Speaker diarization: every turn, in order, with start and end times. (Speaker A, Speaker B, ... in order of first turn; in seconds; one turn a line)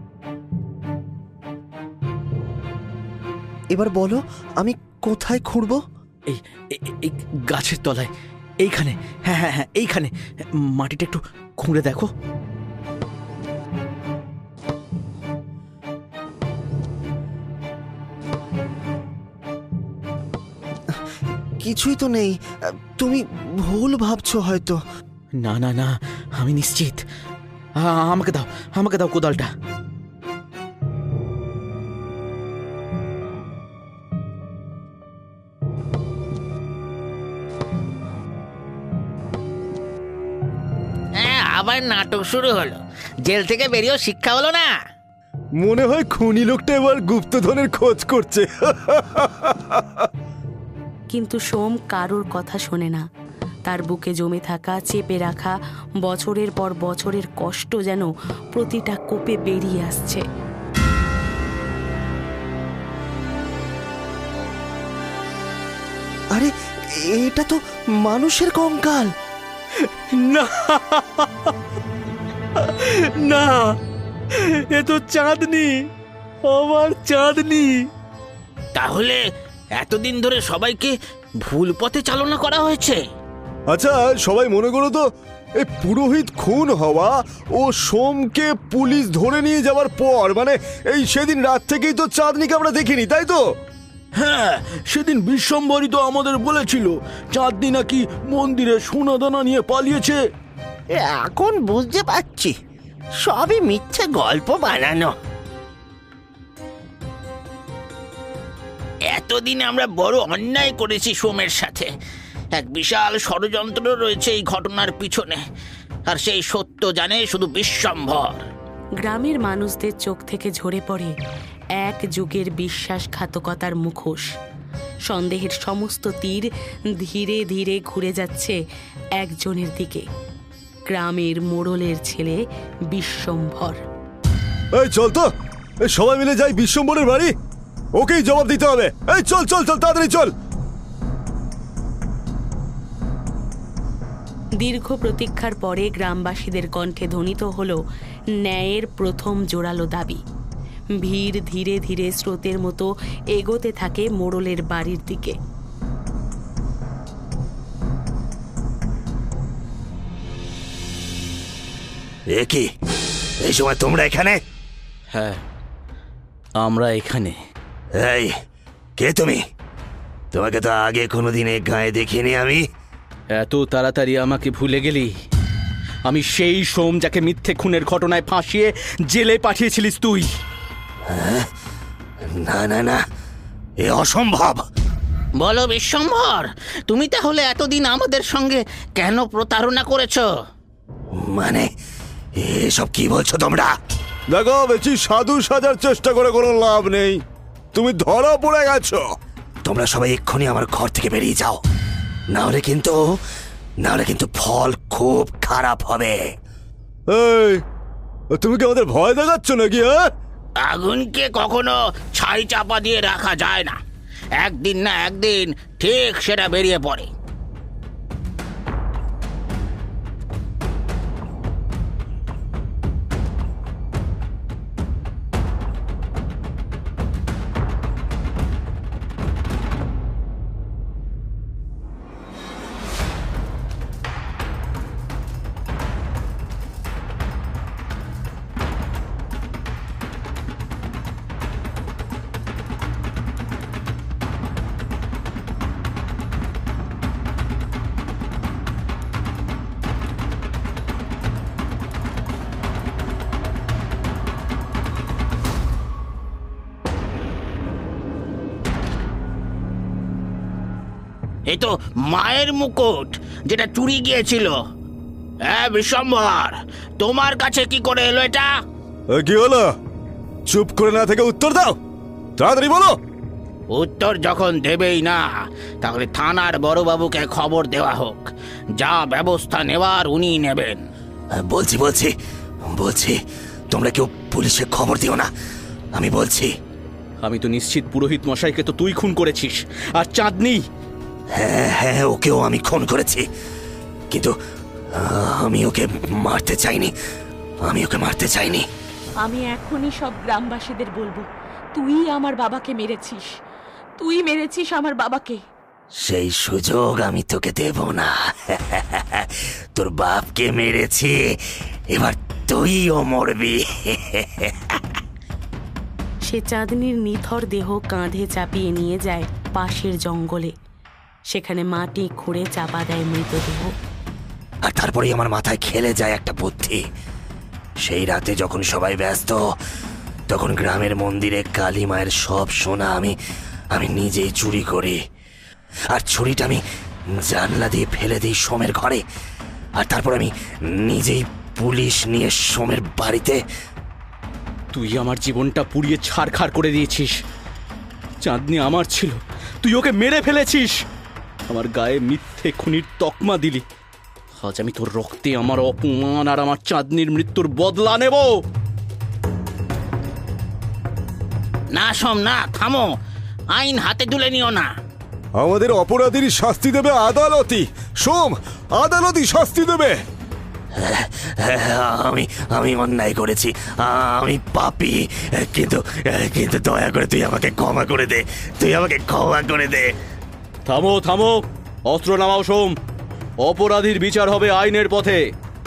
Speaker A: 3.7-5.8
Speaker B: 6.3-8.1
Speaker B: 8.6-12.1
Speaker A: 21.6-24.8
Speaker B: 25.4-27.0
Speaker B: 27.8-29.5
Speaker C: 41.2-44.7
Speaker D: 45.6-49.8
Speaker E: 51.1-53.0
Speaker E: 53.6-60.2
Speaker A: 66.3-69.1
Speaker B: 69.8-71.5
Speaker B: 72.6-73.7
Speaker B: 74.3-75.8
Speaker B: 76.5-77.8
Speaker C: 78.7-79.2
Speaker C: 79.8-83.0
Speaker D: 83.7-85.0
Speaker D: 85.6-93.4
Speaker B: 94.2-100.2
Speaker F: 101.0-102.5
Speaker F: 103.2-105.1
Speaker C: 109.1-111.9
Speaker C: 112.5-115.4
Speaker C: 116.1-118.4
Speaker E: 119.0-121.1
Speaker E: 121.8-124.3
Speaker E: 125.0-126.5
Speaker E: 127.0-128.6
Speaker E: 129.2-130.1
Speaker E: 130.9-132.4
Speaker E: 132.9-133.8
Speaker D: 134.8-135.2
Speaker D: 135.9-137.3
Speaker D: 137.9-140.3
Speaker E: 144.6-147.8
Speaker E: 148.4-150.2
Speaker E: 151.0-155.4
Speaker G: 162.3-162.7
Speaker G: 163.4-164.4
Speaker B: 165.1-165.4
Speaker B: 166.6-167.3
Speaker G: 167.9-168.3
Speaker G: 169.0-169.4
Speaker G: 170.3-172.6
Speaker B: 173.3-175.1
Speaker B: 176.1-180.3
Speaker G: 181.1-181.5
Speaker G: 182.4-183.0
Speaker G: 183.8-184.6
Speaker C: 185.4-190.3
Speaker G: 191.1-191.7
Speaker G: 192.4-193.7
Speaker D: 194.3-197.2
Speaker D: 197.7-199.0
Speaker G: 199.6-201.6
Speaker G: 202.3-203.2
Speaker G: 203.8-206.2
Speaker D: 207.1-207.6
Speaker D: 208.4-210.0
Speaker C: 210.6-213.8
Speaker C: 214.4-217.1
Speaker C: 261.5-264.6
Speaker C: 265.4-268.6
Speaker D: 269.1-269.7
Speaker D: 270.5-271.8
Speaker D: 272.4-272.9
Speaker C: 273.7-280.9
Speaker G: 281.3-282.1
Speaker G: 282.7-283.2
Speaker G: 283.7-285.3
Speaker G: 285.9-286.5
Speaker B: 287.2-290.6
Speaker G: 291.3-293.3
Speaker G: 294.9-296.9
Speaker G: 297.6-298.6
Speaker E: 299.2-303.4
Speaker E: 304.0-305.4
Speaker G: 306.0-311.4
Speaker G: 311.9-314.5
Speaker E: 316.2-320.5
Speaker E: 321.3-323.7
Speaker G: 324.6-326.8
Speaker G: 327.8-329.4
Speaker G: 330.3-333.1
Speaker G: 333.7-335.0
Speaker G: 335.9-336.6
Speaker G: 337.2-339.0
Speaker G: 339.8-343.4
Speaker B: 344.7-347.2
Speaker B: 348.2-350.8
Speaker B: 351.5-353.6
Speaker B: 354.4-358.4
Speaker C: 361.7-363.0
Speaker C: 363.5-364.7
Speaker D: 365.4-370.0
Speaker G: 370.8-379.9
Speaker B: 380.6-382.8
Speaker B: 383.4-385.2